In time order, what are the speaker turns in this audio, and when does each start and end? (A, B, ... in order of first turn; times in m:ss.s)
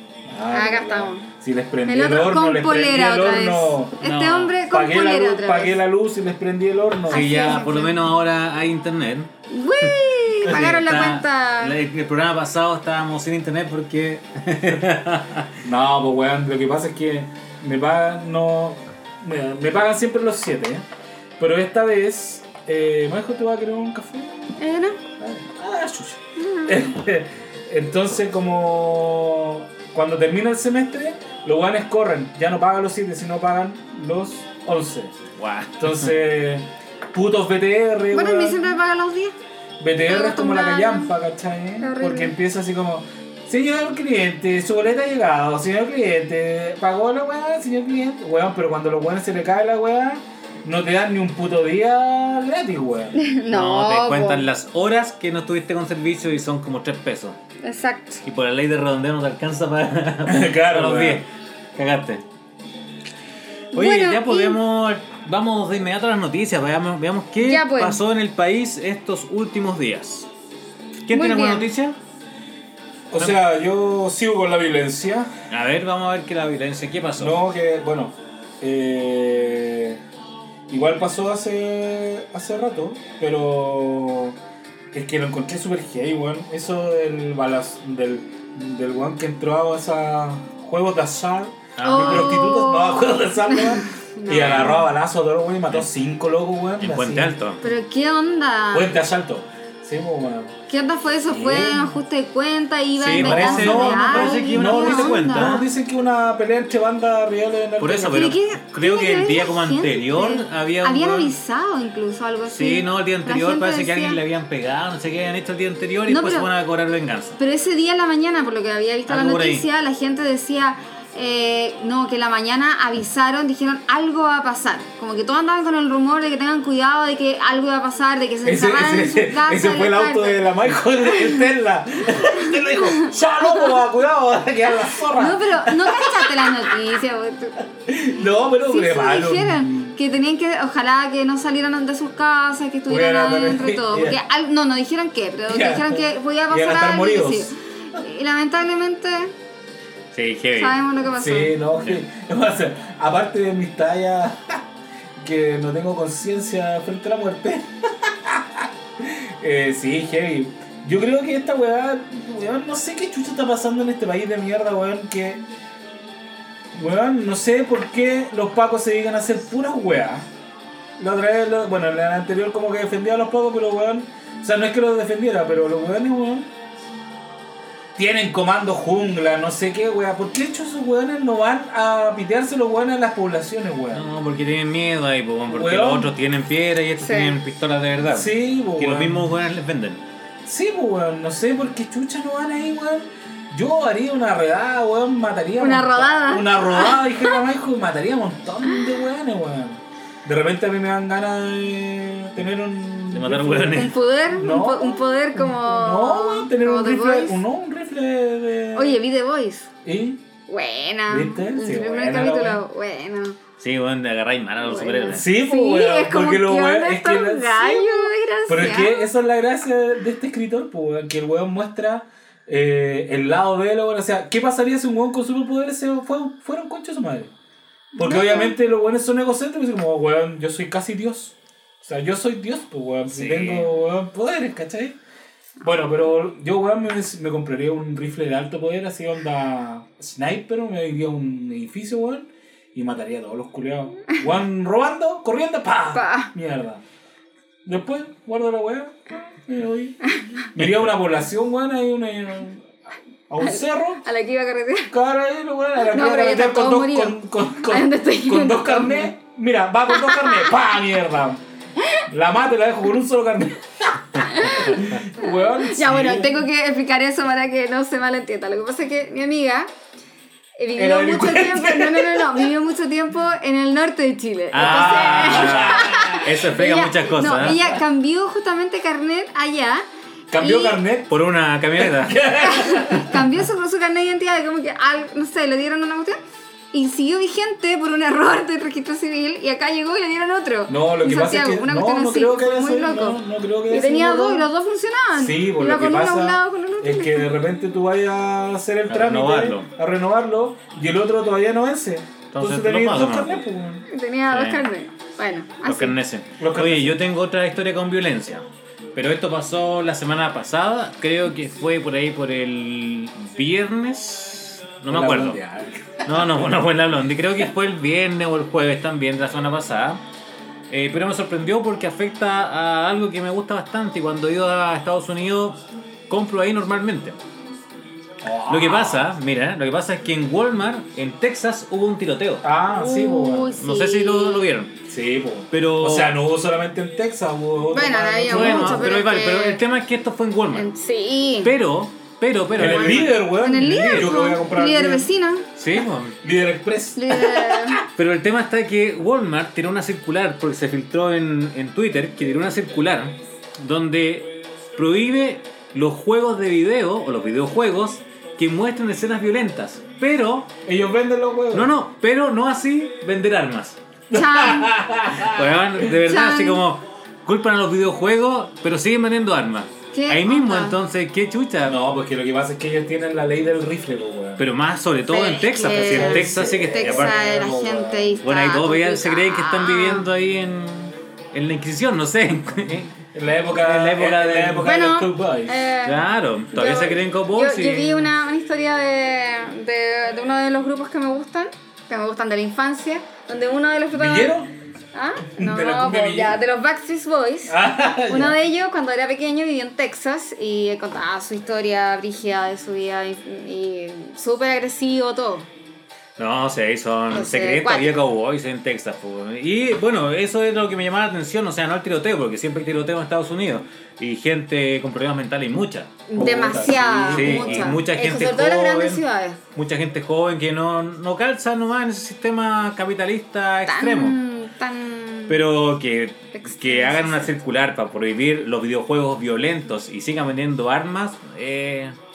0:00.3-0:04.0 A
0:00.5-0:01.3 B
0:01.9-0:05.8 B
0:04.0-0:04.6 C
0:04.7-0:07.7 A
0:07.1-0:08.0 B
0:07.1-0:15.6 C
0:09.5-0:11.8 B
0:10.4-0:10.8 A
0:15.6-0:20.8 A
0:21.4-0:24.6 A
0:24.6-0:25.0 B
0:25.2-0:35.2 A
0:26.4-0:26.9 B
0:35.4-0:36.0 C
0:35.8-0:38.7 A
0:38.1-0:39.4 B
0:39.8-0:53.2 A
0:40.1-0:41.1 B
0:41.8-0:42.4 B
0:53.2-0:54.5 B
0:53.5-0:57.4 C
0:57.6-0:58.2 B
0:58.2-1:02.2 C
1:00.3-1:01.2 A
1:03.7-1:04.6 B
1:03.7-1:10.3 C
1:07.4-1:08.0 B
1:11.1-1:12.0 C
1:11.1-1:11.7 B
1:13.1-1:15.3 A
1:15.5-1:17.4 C
1:17.2-1:20.0 A
1:20.7-1:24.4 A
1:24.9-1:37.4 A
1:31.8-1:32.4 C
1:31.8-1:34.8 B
1:34.3-1:34.9 C
1:36.8-1:37.7 C
1:37.6-1:39.0 B
1:38.7-1:40.5 A
1:40.7-1:45.7 B
1:41.3-1:42.0 A
1:43.0-1:45.7 C
1:43.1-1:48.3 A
1:47.8-1:51.3 C
1:48.1-1:54.2 B
1:52.5-1:57.4 C
1:56.1-1:56.5 B
1:57.4-2:10.5 B
1:59.1-1:59.6 C
2:08.4-2:16.7 A
2:11.1-2:11.4 B
2:12.2-2:13.2 B
2:15.1-2:17.6 B
2:17.9-2:20.0 A
2:18.6-2:29.3 B
2:22.9-2:24.2 A
2:25.5-2:27.5 A
2:30.1-2:30.8 C
2:30.6-2:31.6 B
2:31.1-2:34.6 A
2:35.2-2:45.4 A
2:46.7-2:50.3 A
2:51.0-2:56.5 A
2:58.0-3:04.1 A
3:03.9-3:10.0 C
3:05.5-3:06.2 A
3:07.0-3:07.4 B
3:08.1-3:09.3 A
3:10.4-3:29.0 A
3:15.6-3:17.4 B
3:23.1-3:24.0 C
3:23.7-3:27.4 B
3:28.7-3:29.7 B
3:29.8-3:30.2 A
3:30.5-3:33.4 B
3:31.1-3:32.6 A
3:33.6-3:35.3 C
3:34.6-3:39.1 B
3:35.1-3:47.3 A
3:47.9-3:48.6 B
3:48.0-3:55.0 A
3:53.1-3:53.7 C
3:55.6-4:06.8 A
4:05.9-4:06.3 B
4:07.6-4:10.0 A
4:10.1-4:10.5 B
4:10.6-4:12.7 A
4:13.3-4:14.0 A
4:13.4-4:14.9 B
4:14.9-4:21.4 A
4:15.8-4:19.1 B
4:19.9-4:20.7 B
4:22.1-4:26.4 A
4:24.2-4:29.7 B
4:30.6-4:39.8 B
4:30.8-4:32.5 A
4:34.5-4:37.7 C
4:34.6-4:36.3 A
4:40.3-4:41.2 A
4:40.4-4:40.8 B
4:41.1-4:42.2 C
4:41.8-4:43.3 A
4:42.4-4:46.2 B
4:46.7-4:57.3 B
4:50.7-4:54.5 A
4:55.2-5:03.9 A
4:58.9-4:59.7 C
5:02.3-5:03.5 C
5:03.9-5:06.0 B
5:04.3-5:04.7 C
5:05.7-5:15.4 C
5:06.4-5:07.0 A
5:14.9-5:16.4 A
5:16.1-5:20.0 C
5:20.7-5:25.6 C
5:26.1-5:27.2 C
5:28.2-5:29.1 A
5:28.5-5:32.4 C
5:32.4-5:33.6 A
5:32.7-5:34.5 B
5:33.6-5:34.8 C
5:34.9-5:38.9 A
5:35.5-5:36.2 C
5:37.7-5:39.6 B
5:38.3-5:40.7 C
5:40.5-5:41.6 B
5:41.4-5:44.1 C
5:42.5-5:45.1 A
5:42.6-5:45.5 B
5:45.6-5:46.2 C
5:46.2-5:47.8 A
5:47.0-5:47.8 B
5:48.0-6:00.5 C
6:00.6-6:01.7 A
6:01.5-6:03.8 C
6:04.1-6:05.8 A
6:04.1-6:04.7 B
6:05.2-6:11.8 C
6:06.0-6:06.6 B
6:09.9-6:10.8 B
6:11.7-6:14.5 A
6:14.4-6:17.1 C
6:15.1-6:20.1 B
6:15.6-6:18.2 A
6:18.2-6:24.7 C
6:23.1-6:25.7 A
6:24.6-6:34.3 B
6:25.8-6:28.1 C
6:33.9-6:34.5 A
6:34.9-6:37.6 B
6:35.3-6:36.4 A
6:37.5-6:38.4 A
6:38.1-6:45.5 B
6:46.2-6:56.0 C
6:47.1-6:47.9 B
6:56.1-6:59.4 B
6:56.2-6:57.8 A
6:57.1-6:59.0 C
6:59.5-7:04.2 C
7:03.7-7:05.4 B
7:05.3-7:12.0 C
7:06.3-7:07.3 B